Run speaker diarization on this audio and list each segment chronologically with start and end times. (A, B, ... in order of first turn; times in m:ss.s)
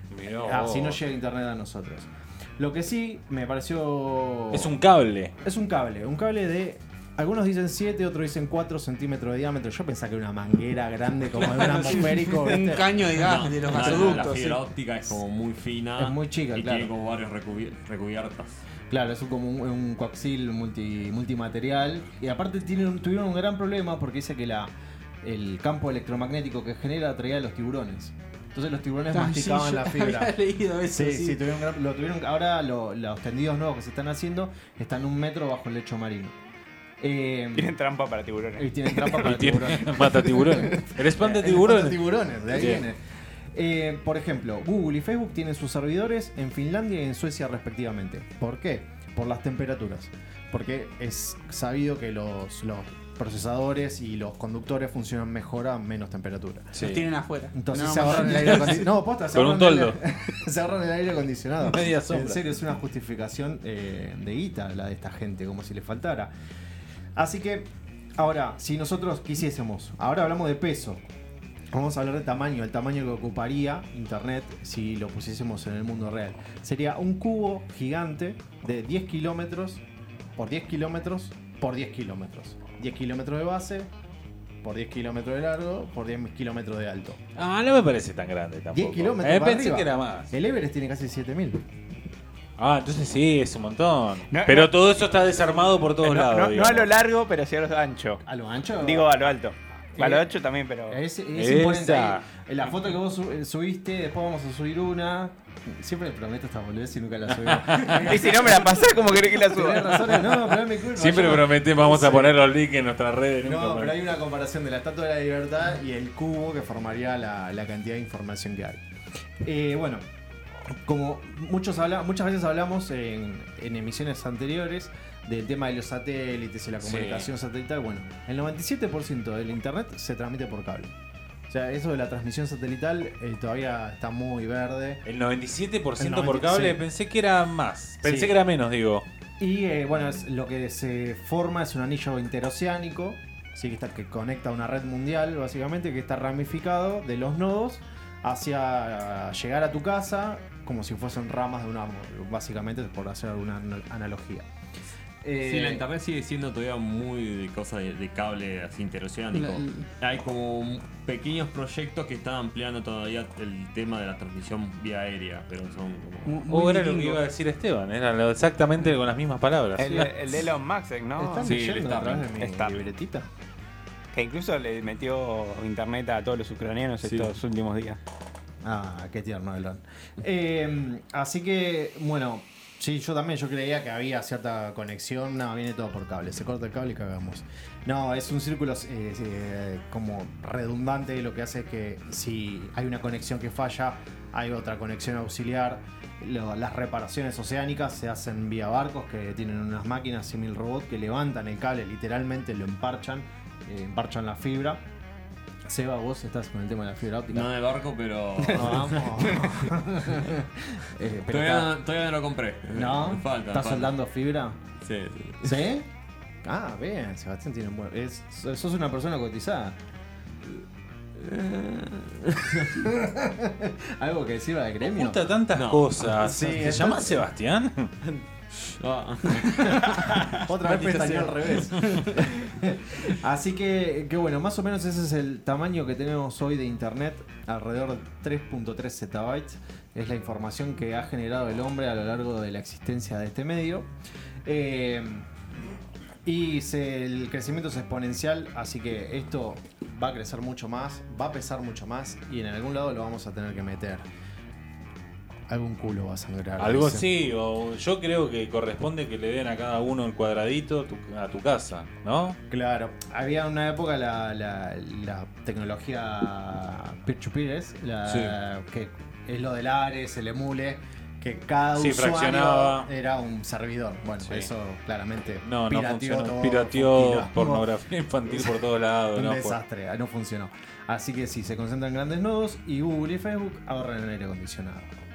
0:00.1-0:01.0 A
0:00.4-0:04.7 B
0:04.5-0:05.3 A
0:05.4-0:12.9 B
0:11.3-0:12.4 A
0:12.4-0:14.6 C
0:13.0-0:18.6 D
0:16.0-0:16.9 B
0:18.9-0:36.4 B
0:29.1-0:31.4 C
0:37.0-0:37.7 B
0:37.6-0:39.3 E
0:38.6-0:43.0 B
0:39.1-0:42.8 A
0:43.5-0:56.7 B
0:56.7-0:57.0 A
0:56.8-0:58.8 C
0:57.6-1:06.3 B
0:58.3-1:00.0 A
1:01.6-1:02.4 A
1:07.2-1:11.0 B
1:11.7-1:19.8 B
1:20.4-1:23.9 B
1:24.6-1:27.2 B
1:27.4-1:30.3 A
1:28.7-1:31.6 B
1:32.6-1:36.9 A
1:34.3-1:34.7 E
1:36.0-1:38.2 E
1:38.2-1:39.2 B
1:38.8-1:41.0 E
1:40.0-1:40.3 B
1:40.9-1:52.4 B
1:41.3-1:42.3 A
1:47.4-1:48.0 A
1:47.9-1:50.6 E
1:50.9-1:54.0 A
1:53.4-1:58.8 B
1:59.4-2:00.0 B
2:00.8-2:10.9 B
2:06.8-2:07.3 A
2:11.5-2:15.0 B
2:15.0-2:19.0 A
2:16.0-2:16.8 B
2:18.0-2:18.4 B
2:19.4-2:34.5 B
2:35.2-2:35.8 B
2:35.4-2:46.5 D
2:39.3-2:39.8 C
2:46.3-2:47.2 C
2:46.5-2:50.2 A
2:49.8-2:51.6 E
2:51.2-2:53.3 B
2:51.4-2:52.9 D
2:52.4-2:52.8 E
2:54.1-2:58.0 E
2:57.0-2:57.3 D
2:58.6-3:24.8 B
3:25.7-3:27.5 B
3:27.3-3:29.5 D
3:28.5-3:31.7 B
3:28.6-3:29.6 E
3:31.3-3:34.0 D
3:32.7-3:34.6 B
3:34.8-3:35.6 D
3:35.4-3:35.9 B
3:36.4-3:39.8 B
3:41.2-3:42.8 D
3:42.6-3:45.2 B
3:44.8-3:47.9 A
3:45.5-3:46.0 D
3:46.1-3:47.2 B
3:48.6-3:51.8 D
3:49.6-4:03.9 B
4:04.5-4:05.3 B
4:06.3-4:14.1 B
4:15.5-4:17.1 B
4:16.6-4:22.4 A
4:22.5-4:37.7 B
4:28.1-4:28.4 A
4:31.8-4:32.9 A
4:34.2-4:34.5 A
4:35.4-4:39.6 A
4:38.3-4:38.6 B
4:39.2-4:44.9 B